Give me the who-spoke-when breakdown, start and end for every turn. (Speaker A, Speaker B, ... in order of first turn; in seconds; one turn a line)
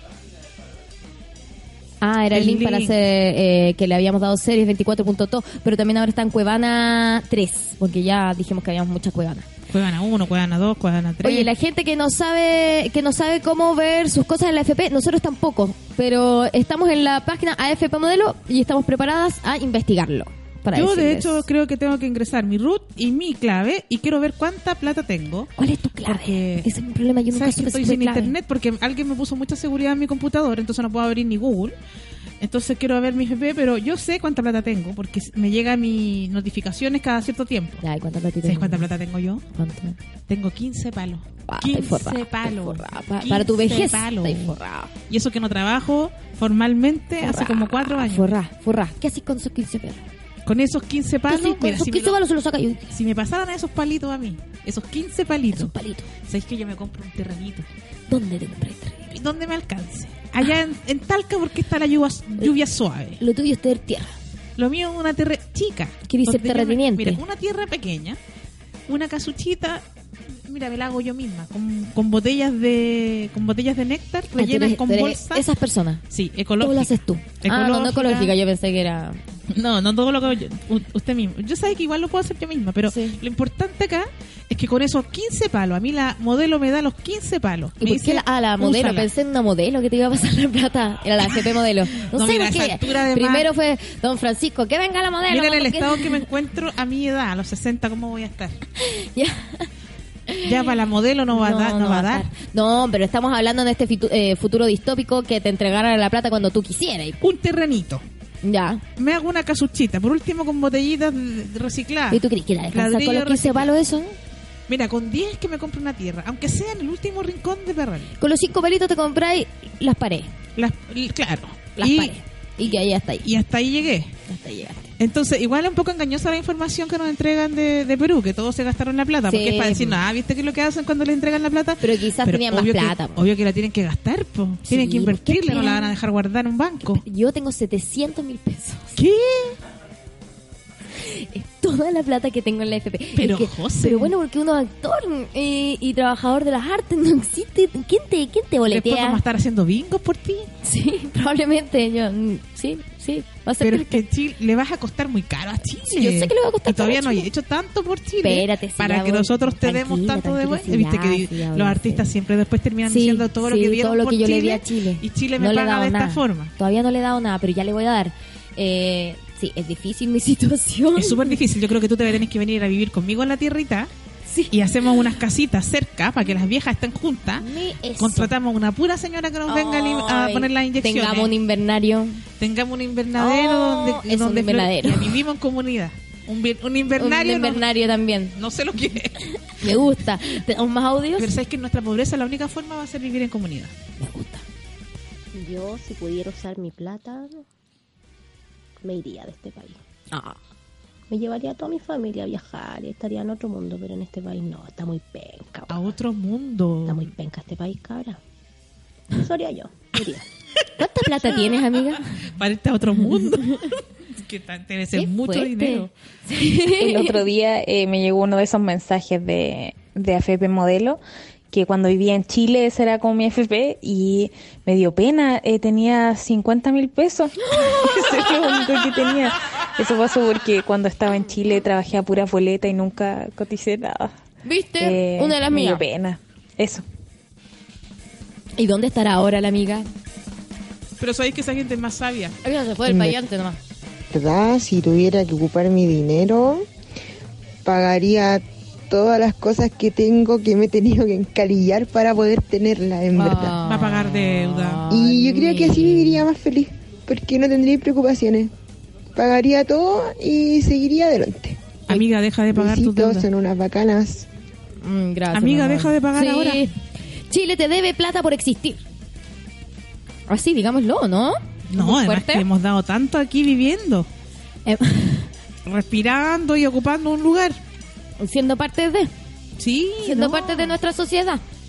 Speaker A: 2.0-9.5
Speaker B: 2.3-3.0
Speaker B: 9.7-11.5
Speaker A: 11.2-21.4
Speaker B: 20.7-25.5
Speaker A: 25.6-28.3
Speaker B: 26.0-26.7
Speaker B: 27.3-31.8
Speaker B: 32.4-37.8
Speaker A: 37.8-38.9
Speaker B: 38.4-39.4
Speaker A: 39.5-40.0
Speaker B: 40.3-44.6
Speaker A: 41.5-44.9
Speaker B: 45.1-48.4
Speaker A: 47.2-50.0
Speaker B: 50.5-52.2
Speaker A: 51.3-52.9
Speaker B: 52.9-57.7
Speaker A: 55.5-56.1
Speaker A: 58.1-59.1
Speaker B: 59.1-63.2
Speaker A: 63.2-64.1
Speaker B: 64.6-68.2
Speaker A: 66.1-67.2
Speaker B: 68.9-69.8
Speaker B: 70.5-75.5
Speaker A: 74.3-76.0
Speaker B: 76.1-78.3
Speaker A: 76.6-79.2
Speaker B: 79.5-89.1
Speaker A: 82.8-83.2
Speaker A: 87.8-96.2
Speaker B: 91.3-93.5
Speaker B: 95.3-98.6
Speaker A: 98.8-99.7
Speaker A: 100.3-100.8
Speaker B: 100.4-102.3
Speaker A: 101.3-107.2
Speaker B: 107.2-108.0
Speaker A: 108.4-108.8
Speaker B: 109.0-113.7
Speaker A: 112.1-114.2
Speaker B: 114.7-118.1
Speaker A: 118.2-120.3
Speaker B: 120.5-122.2
Speaker A: 121.8-123.3
Speaker B: 123.2-124.1
Speaker A: 124.3-124.9
Speaker B: 125.0-137.0
Speaker A: 129.3-130.0
Speaker A: 131.8-133.2
Speaker A: 134.7-135.9
Speaker A: 136.9-139.0
Speaker B: 138.9-139.6
Speaker A: 140.9-149.2
Speaker B: 143.2-144.1
Speaker B: 148.7-150.5
Speaker A: 150.6-154.0
Speaker B: 153.6-166.5
Speaker A: 155.8-157.3
Speaker A: 158.2-162.1
Speaker A: 162.8-171.4
Speaker B: 170.9-173.9
Speaker A: 174.3-174.5
Speaker B: 174.5-177.5
Speaker A: 177.4-178.3
Speaker B: 178.0-181.3
Speaker A: 179.5-182.2
Speaker B: 182.4-187.6
Speaker A: 183.2-185.2
Speaker A: 187.0-188.3
Speaker B: 188.3-189.8
Speaker A: 189.5-191.3
Speaker B: 191.2-193.8
Speaker A: 194.0-194.4
Speaker C: 195.3-197.4
Speaker C: 198.8-199.8
Speaker A: 200.1-200.4
Speaker C: 201.1-205.8
Speaker B: 205.7-207.0
Speaker C: 206.9-208.2
Speaker C: 209.2-210.2
Speaker A: 210.8-212.0
Speaker B: 211.2-211.6
Speaker B: 212.2-215.9
Speaker A: 213.0-213.7
Speaker A: 214.9-217.2
Speaker D: 216.7-221.0
Speaker D: 221.5-234.1
Speaker A: 234.4-235.8
Speaker D: 234.8-236.8
Speaker A: 238.6-239.9
Speaker B: 241.0-242.4
Speaker A: 242.4-243.6
Speaker E: 242.9-243.1
Speaker E: 244.1-246.7
Speaker E: 247.6-253.6
Speaker A: 253.1-256.2
Speaker B: 253.6-254.8
Speaker E: 254.9-258.5
Speaker E: 259.1-262.0
Speaker B: 261.9-263.3
Speaker E: 262.5-264.3
Speaker A: 264.8-266.7
Speaker B: 265.3-266.7
Speaker A: 267.3-268.8
Speaker A: 270.3-272.5
Speaker B: 271.7-274.1
Speaker A: 274.6-275.3
Speaker B: 275.6-277.6
Speaker A: 278.2-279.1
Speaker B: 279.6-280.8
Speaker A: 280.0-281.4